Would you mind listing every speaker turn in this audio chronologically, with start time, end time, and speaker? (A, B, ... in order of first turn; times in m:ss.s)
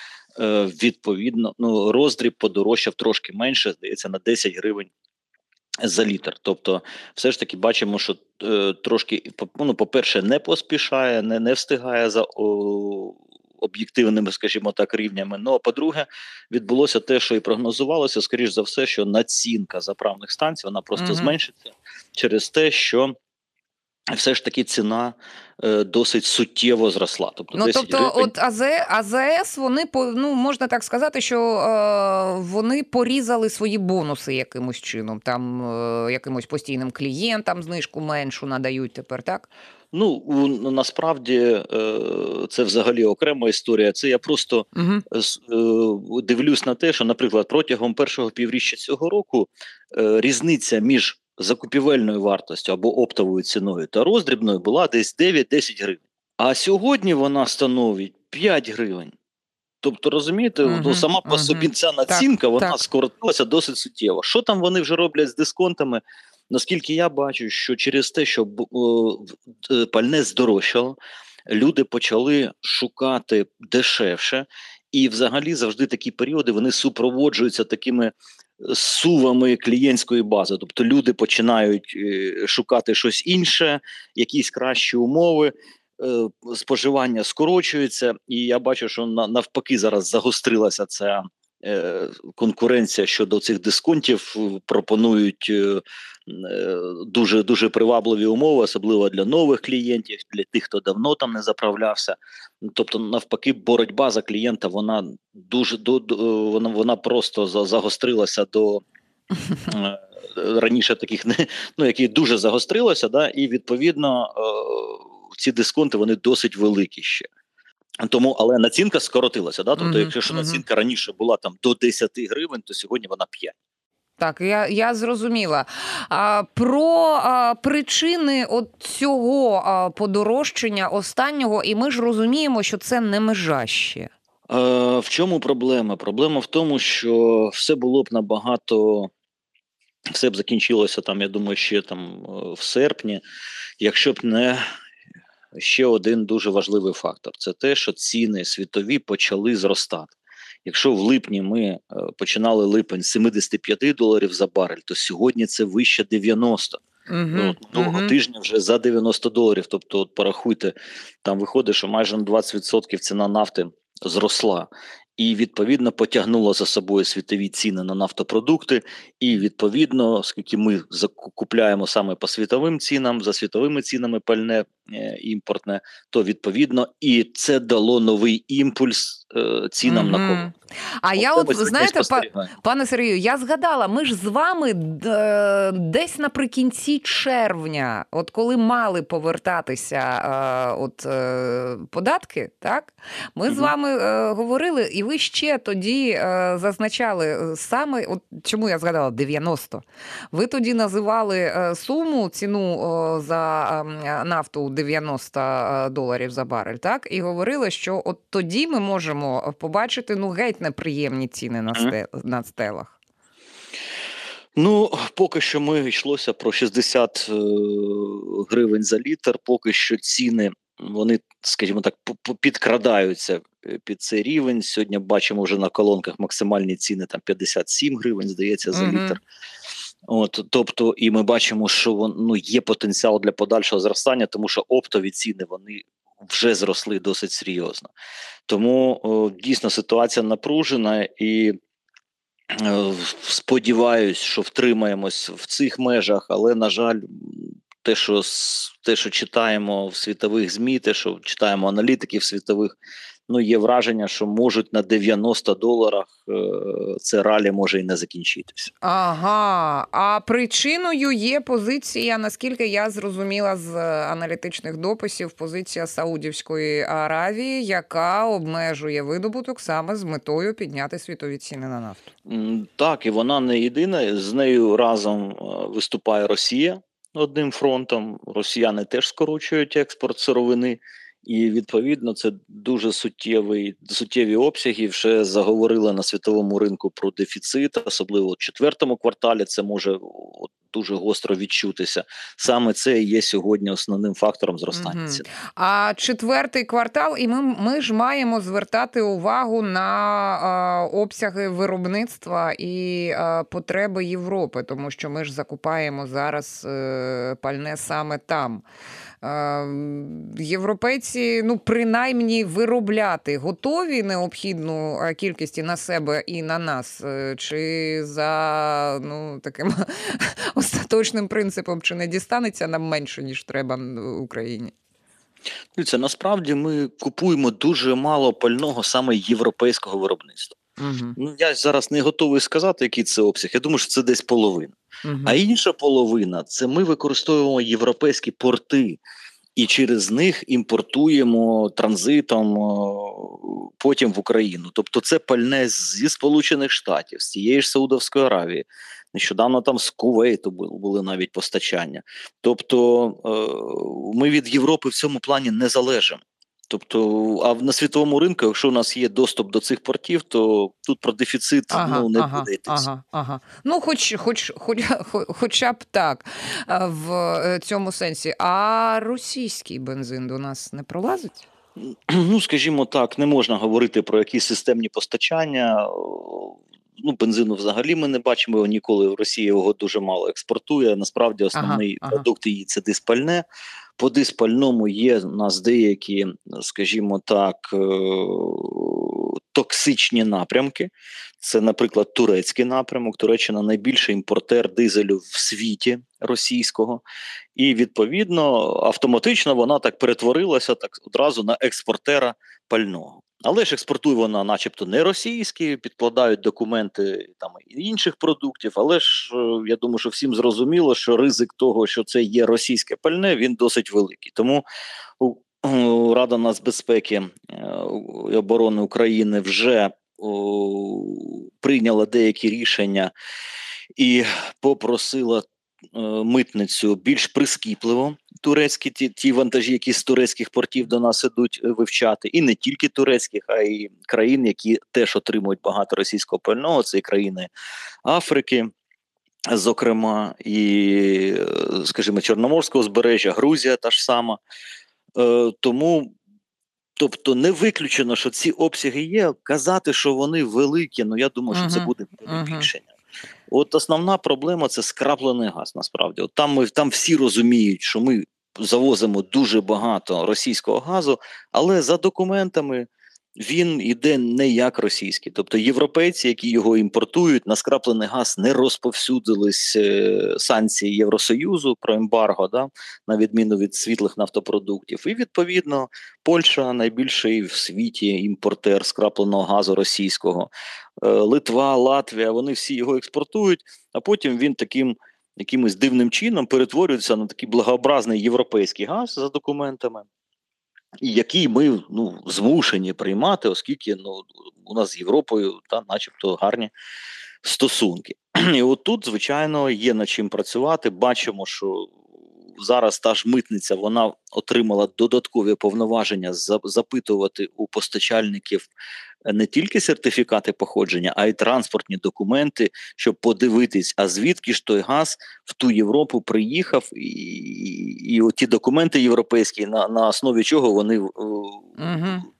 0:00.4-0:04.9 A
0:05.8-0:23.2 A
0:21.0-0:21.4 B
0:24.1-0:28.3 A
0:27.5-0:39.5 B
0:39.9-0:59.1 A
0:44.8-0:45.0 B
0:59.8-1:48.8 A
1:00.6-1:02.8 B
1:49.7-1:57.3 A
1:58.0-2:03.6 A
1:59.8-2:00.6 B
2:04.2-2:14.1 B
2:14.5-2:19.1 A
2:20.1-2:23.2 A
2:23.8-2:24.6 A
2:25.5-2:30.1 A
2:30.6-2:36.8 A
2:37.1-2:38.2 B
2:37.3-3:00.5 A
2:59.8-3:33.0 B
3:01.2-3:02.5 A
3:34.6-3:49.2 A
3:48.7-3:49.2 B
3:50.1-3:57.9 A
3:58.5-4:01.6 A
4:02.5-4:12.8 A
4:13.3-4:18.7 A
4:18.8-4:32.1 B
4:32.3-4:55.2 A
4:54.7-5:08.6 B
5:09.2-5:24.7 B
5:25.8-5:30.6 A
5:30.8-5:31.2 B
5:31.2-5:39.0 A
5:35.0-5:35.4 B
5:39.6-6:02.9 A
6:01.7-6:11.5 B
6:11.8-6:23.4 A
6:21.5-6:22.3 B
6:24.0-6:37.0 A
6:37.6-6:54.6 A
6:55.2-7:03.1 A
7:04.0-7:17.5 A
7:18.0-7:18.7 A
7:19.5-7:24.4 A
7:25.2-7:26.1 A
7:27.0-7:32.9 A
7:31.5-7:32.7 B
7:33.5-8:00.5 A
8:01.0-8:10.1 A
8:11.0-8:16.7 A
8:17.4-8:22.0 A
8:22.6-8:28.7 A
8:29.2-8:41.8 A
8:41.8-8:42.3 B